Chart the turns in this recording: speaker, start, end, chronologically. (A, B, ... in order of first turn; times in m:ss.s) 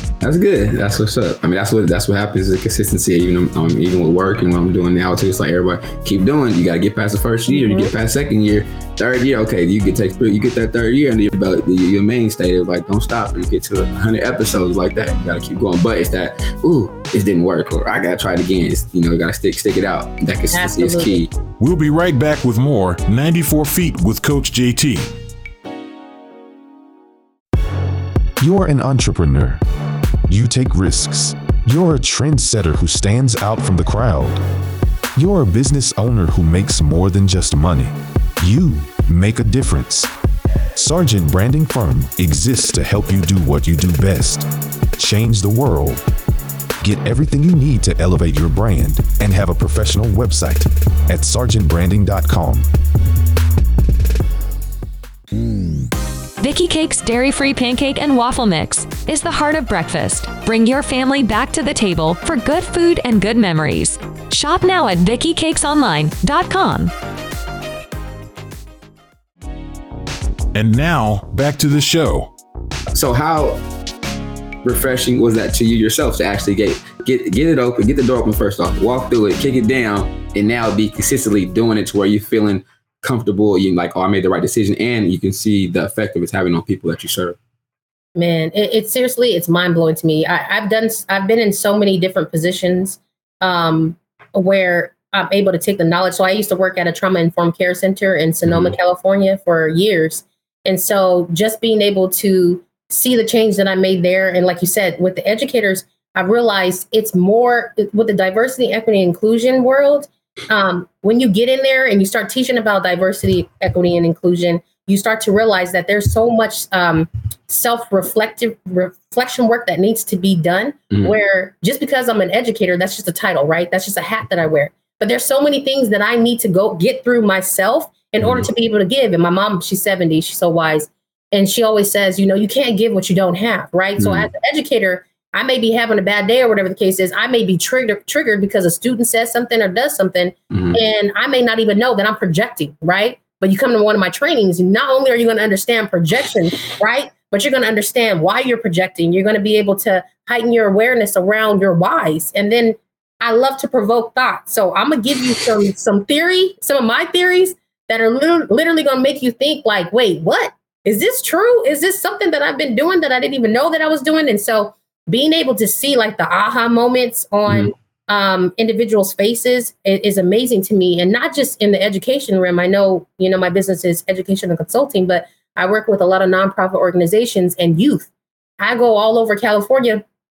0:00.2-0:21.3 A
0:07.5-0:07.9 B
0:20.5-0:21.2 B
0:21.6-0:25.1 C
0:28.4-0:29.6 D
0:30.3-0:34.4 D
0:35.1-0:40.1 D
0:40.7-0:46.0 D
0:46.8-0:52.7 D
0:56.4-1:06.9 E
1:10.5-1:12.3 C
1:12.9-1:13.6 A
1:14.6-1:27.4 A
1:28.2-3:00.0 B
1:38.4-1:38.7 A
2:00.9-2:01.2 A
2:08.2-2:08.5 A
2:14.0-2:14.3 A
2:20.5-2:20.8 A
2:47.5-2:47.7 A